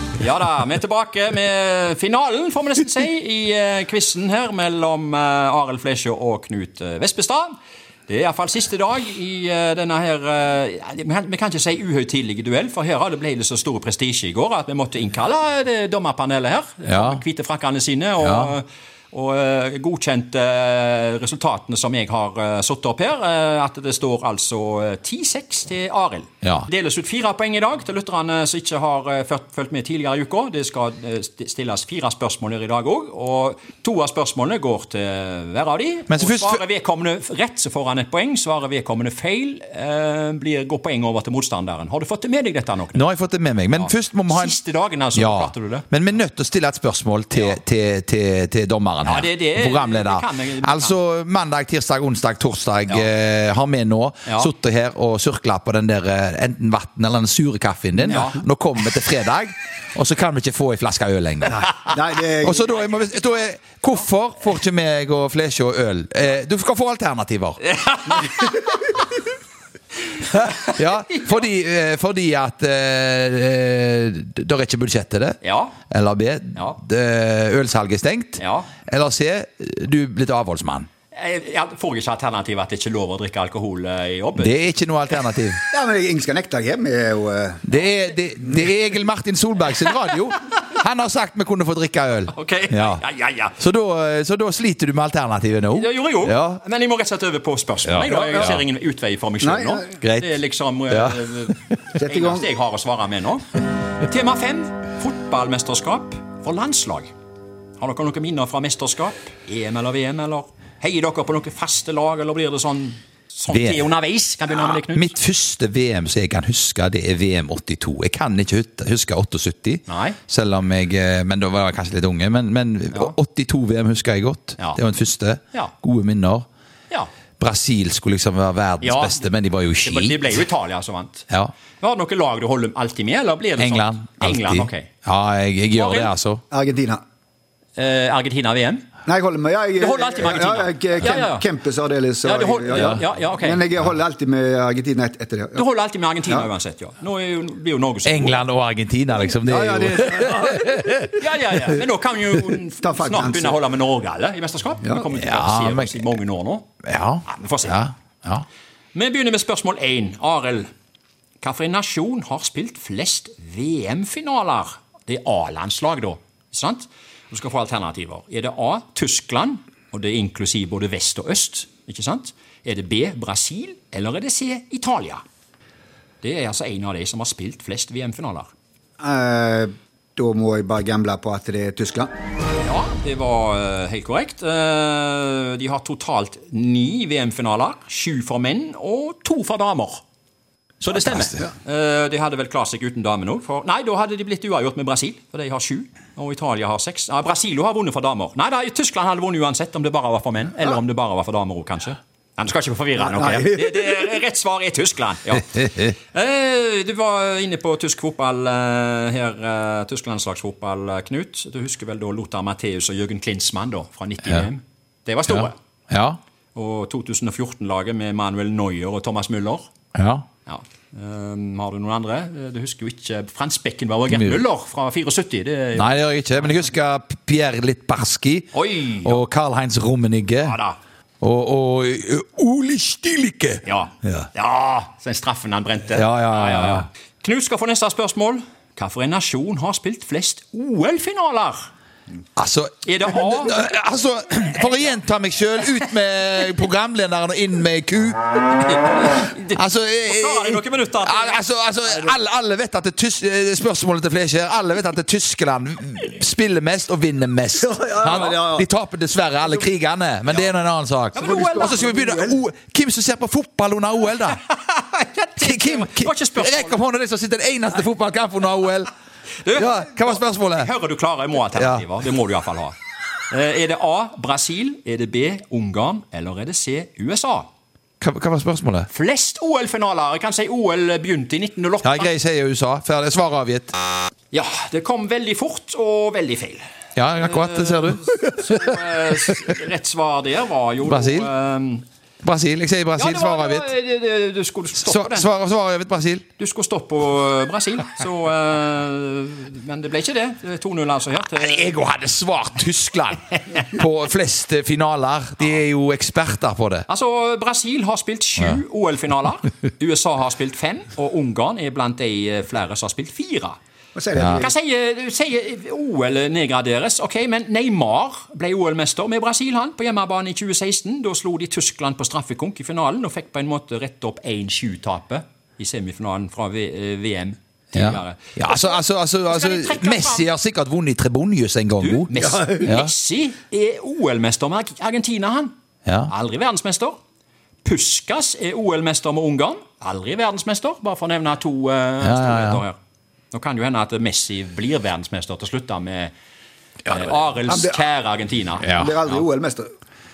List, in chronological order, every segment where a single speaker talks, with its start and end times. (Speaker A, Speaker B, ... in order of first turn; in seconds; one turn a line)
Speaker A: 0.2-7.5
Speaker A: 8.1-43.0
Speaker B: 16.9-17.2
Speaker B: 18.2-18.5
Speaker B: 26.4-26.7
Speaker B: 36.1-36.6
Speaker B: 42.9-44.6
Speaker A: 43.7-45.9
Speaker B: 45.1-61.7
Speaker A: 47.3-47.6
Speaker A: 49.0-51.0
Speaker A: 54.3-54.5
Speaker A: 58.1-58.4
Speaker C: 61.5-62.8
Speaker B: 62.4-67.6
Speaker A: 67.7-69.0
Speaker B: 70.2-80.9
Speaker A: 75.4-75.8
Speaker A: 78.4-78.7
Speaker A: 81.1-84.7
Speaker B: 84.4-85.6
Speaker C: 85.7-87.6
Speaker B: 87.7-93.0
Speaker A: 92.3-93.6
Speaker B: 93.6-96.6
Speaker A: 95.7-107.1
Speaker B: 97.8-98.6
Speaker C: 98.1-98.4
Speaker C: 99.4-100.0
Speaker B: 100.0-101.8
Speaker C: 102.0-102.5
Speaker A: 107.8-115.2
Speaker B: 113.5-113.9
Speaker B: 114.5-126.5
Speaker A: 119.9-120.2
Speaker B: 127.4-130.4
Speaker A: 128.8-129.3
Speaker A: 129.8-131.3
Speaker A: 131.8-134.9
Speaker B: 133.6-136.4
Speaker A: 135.8-136.1
Speaker C: 136.5-137.0
Speaker A: 137.8-138.9
Speaker C: 139.1-145.6
Speaker A: 139.8-141.5
Speaker A: 142.2-143.7
Speaker B: 142.8-143.0
Speaker A: 145.5-148.4
Speaker B: 148.1-151.2
Speaker C: 149.3-150.8
Speaker A: 151.1-156.7
Speaker C: 152.8-153.6
Speaker B: 155.1-156.1
Speaker B: 156.8-158.4
Speaker A: 157.3-157.8
Speaker A: 158.9-160.7
Speaker A: 161.4-175.2
Speaker A: 176.2-178.5
Speaker C: 179.0-182.1
Speaker A: 182.6-190.0
Speaker A: 190.8-215.6
Speaker B: 191.0-191.4
Speaker C: 203.0-204.1
Speaker B: 214.2-214.5
Speaker B: 215.3-216.2
Speaker A: 216.6-219.7
Speaker B: 219.9-220.2
Speaker A: 220.4-226.0
Speaker B: 224.1-224.4
Speaker B: 225.8-230.6
Speaker A: 228.5-229.2
Speaker A: 230.4-230.8
Speaker B: 231.2-234.3
Speaker A: 233.7-241.7
Speaker B: 235.9-236.9
Speaker B: 242.4-248.3
Speaker A: 242.8-243.7
Speaker A: 248.7-251.4
Speaker B: 249.5-264.4
Speaker C: 251.9-252.2
Speaker C: 257.6-258.6
Speaker A: 261.1-261.9
Speaker C: 261.2-262.4
Speaker A: 264.4-266.8
Speaker B: 265.4-268.9
Speaker A: 269.4-272.8
Speaker B: 269.5-270.7
Speaker B: 271.5-271.9
Speaker A: 273.3-277.5
Speaker B: 278.0-278.9
Speaker A: 278.9-282.1
Speaker B: 281.8-283.7
Speaker A: 284.3-286.6
Speaker B: 287.0-288.8
Speaker A: 287.2-291.9
Speaker B: 290.8-291.3
Speaker B: 292.2-293.7
Speaker A: 293.0-295.3
Speaker B: 294.8-296.3
Speaker A: 296.4-301.7
Speaker B: 301.3-306.9
Speaker A: 306.9-313.6
Speaker C: 313.9-314.5
Speaker B: 314.2-314.4
Speaker A: 314.3-330.3
Speaker B: 327.7-332.9
Speaker A: 331.8-335.5
Speaker C: 332.1-332.5
Speaker B: 335.9-336.1
Speaker A: 336.1-337.0
Speaker A: 337.6-342.8
Speaker B: 342.0-342.6
Speaker A: 343.3-346.1
Speaker A: 346.9-349.2
Speaker C: 347.4-347.8
Speaker B: 348.6-348.9
Speaker C: 348.6-349.7